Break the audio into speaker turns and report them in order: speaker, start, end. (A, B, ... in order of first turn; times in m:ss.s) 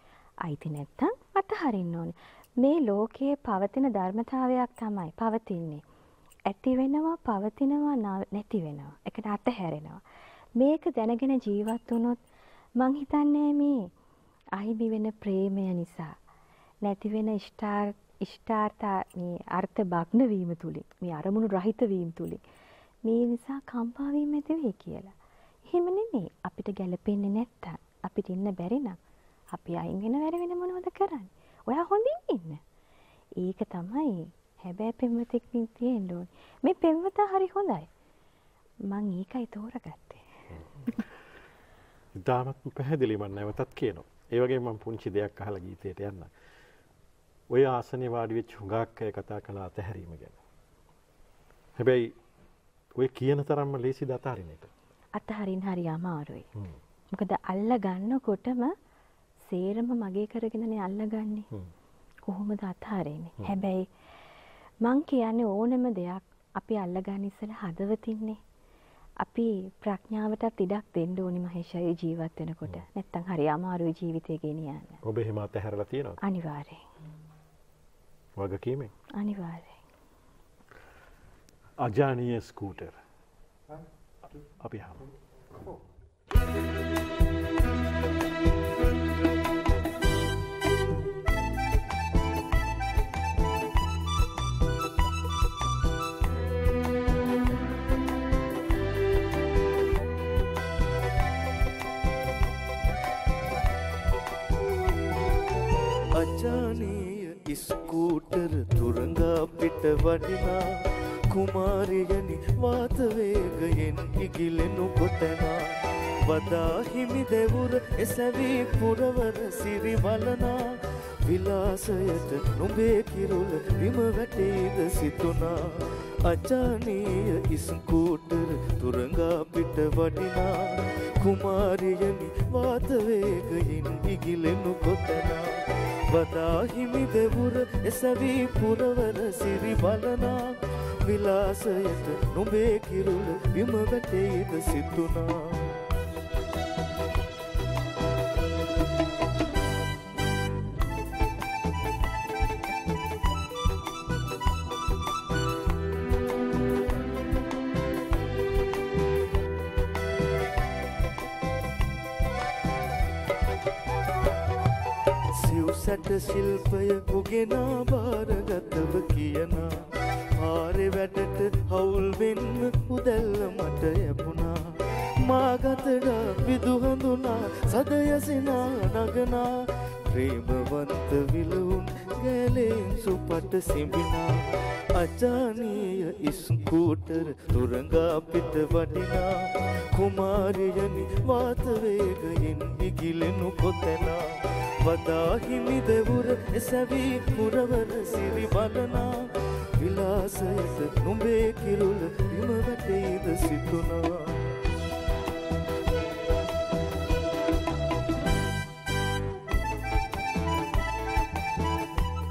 0:00.4-0:05.8 A
0:06.5-0:10.0 A
0:10.6-0:12.2 A
0:12.8-0:13.9 A
0:14.6-0:16.2 A
0:16.8-0:22.4 A
0:23.0-0:25.1 A
0:25.6-0:29.0 A
0:29.5-0:32.6 A
0:33.4-0:37.9 A
0:38.9-0:40.2 A
0:42.1-0:46.3 B
0:47.5-0:50.4 B
0:51.8-0:52.1 B
0:52.9-0:54.7 B
0:55.1-0:56.5 A
0:57.1-0:58.7 A
0:59.4-1:01.5 A
1:02.2-1:03.9 A
1:04.8-1:08.4 A
1:09.2-1:15.0 A
1:15.0-1:16.2 B
1:16.2-1:16.8 A
1:18.4-1:18.9 B
1:19.1-1:19.8 A
1:21.8-1:23.0 B
1:24.4-1:25.1 B
1:46.1-2:25.7 C
2:45.3-3:24.4 C